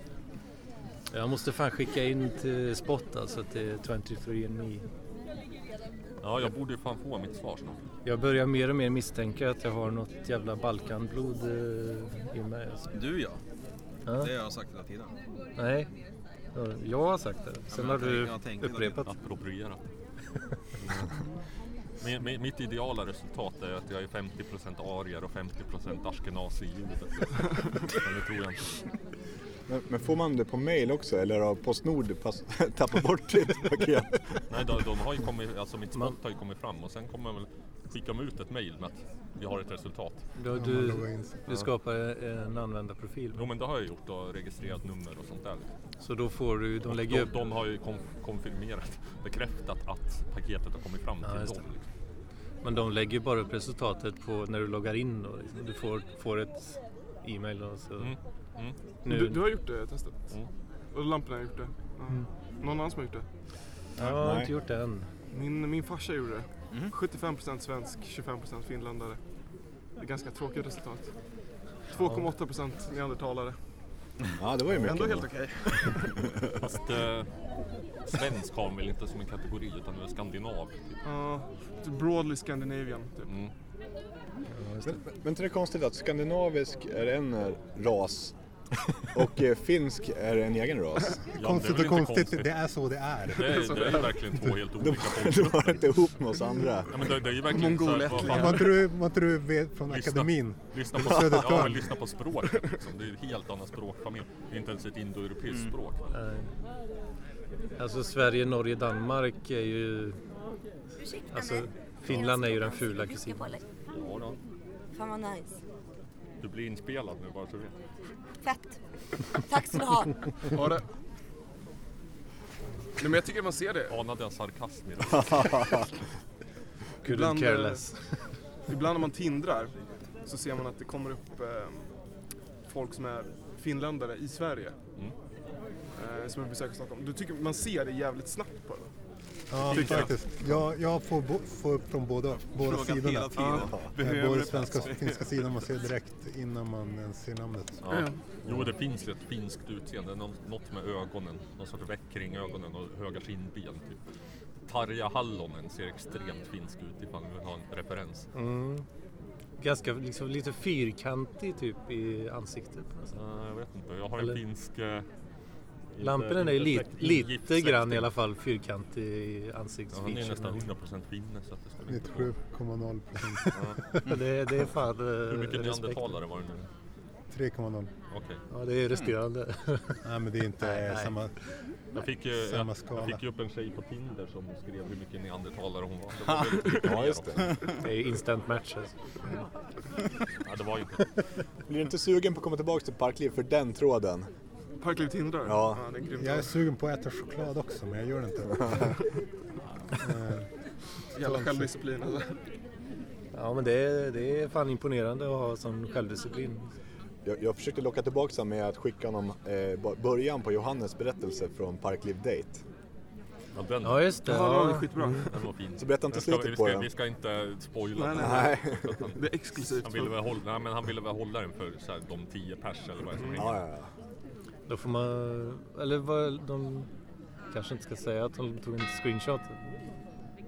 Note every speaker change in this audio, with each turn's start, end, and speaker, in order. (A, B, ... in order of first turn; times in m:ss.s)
0:01.1-0:04.8 A
0:06.2-0:07.8 B
0:08.0-0:12.8 A
0:12.9-0:13.4 C
0:14.1-0:15.1 C
0:15.6-0:15.9 A
0:16.5-0:19.1 A
0:17.7-0:19.1 C
0:19.0-0:19.8 B
0:22.0-0:28.8 B
0:29.7-0:34.4 D
0:34.5-0:40.2 B
0:40.4-0:43.4 A
0:40.5-0:41.4 E
0:43.3-0:45.7 B
0:46.0-0:47.3 A
0:46.9-0:51.8 B
0:51.2-0:51.6 A
0:52.6-0:58.1 A
0:58.0-0:58.8 B
0:59.0-0:59.4 A
0:59.1-1:00.2 F
1:00.9-1:03.2 F
1:04.0-1:05.1 A
1:04.0-1:04.5 D
1:05.3-1:09.2 F
1:10.0-1:11.1 F
1:11.8-1:13.6 F
1:14.3-1:15.3 D
1:14.8-1:16.2 F
1:16.6-1:17.3 B
1:18.0-1:21.0 B
1:21.0-1:23.3 F
1:24.6-1:25.0 A
1:24.8-1:28.3 D
1:29.1-1:31.2 D
1:31.3-1:32.6 B
1:31.4-1:33.9 E
1:33.3-1:35.8 B
1:34.8-1:36.9 D
1:36.9-1:38.8 B
1:37.4-1:38.7 F
1:38.2-1:41.9 E
1:39.9-1:46.0 B
1:46.1-1:46.5 A
1:47.8-1:50.2 A
1:51.0-1:53.6 G
1:51.3-1:53.4 A
1:53.9-1:54.4 B
1:54.9-1:55.6 G
1:56.4-1:57.8 B
1:58.4-1:58.8 G
1:59.4-2:00.2 G
2:00.5-2:00.8 F
2:03.0-2:04.0 F
2:03.9-2:05.7 B
2:05.4-2:05.7 D
2:07.0-2:08.0 A
2:07.0-2:07.8 F
2:08.7-2:11.9 F
2:12.6-2:14.8 F
2:15.9-2:18.9 F
2:19.5-2:27.8 E
2:19.6-2:20.1 F
2:19.7-2:20.0 B
2:22.6-2:24.0 C
2:23.4-2:25.2 F
2:27.8-2:34.0 B
2:27.9-2:28.2 F
2:34.6-2:38.3 B
2:38.3-2:38.8 A
2:39.6-2:43.1 A
2:43.1-2:45.0 B
2:45.9-2:48.1 B
2:46.0-2:50.6 A
2:49.9-2:52.3 B
2:51.9-2:54.0 E
2:53.5-2:53.8 B
2:54.0-2:56.1 A
2:55.3-2:56.7 B
2:57.3-2:57.9 E
2:58.1-2:58.4 B
2:58.5-3:00.0 A
3:00.0-3:01.3 E
3:00.6-3:01.1 A
3:01.9-3:07.6 B
3:02.4-3:03.2 E
3:06.8-3:07.6 D
3:07.8-3:08.9 A
3:10.4-3:11.0 B
3:11.7-3:14.3 D
3:14.8-3:16.5 F
3:15.4-3:15.8 D
3:16.1-3:19.0 E
3:20.0-3:20.5 E
3:21.1-3:22.4 F
3:21.2-3:21.6 E
3:23.3-3:26.7 A
3:27.2-3:32.6 D
3:33.5-3:34.2 B
3:33.8-3:35.2 A
3:34.2-3:35.4 F
3:35.2-3:43.6 B
3:35.8-3:36.9 D
3:38.0-3:38.5 F
3:38.1-3:39.0 D
3:39.1-3:40.1 F
3:43.4-3:43.9 D
3:44.7-3:46.9 A
3:47.5-3:49.7 A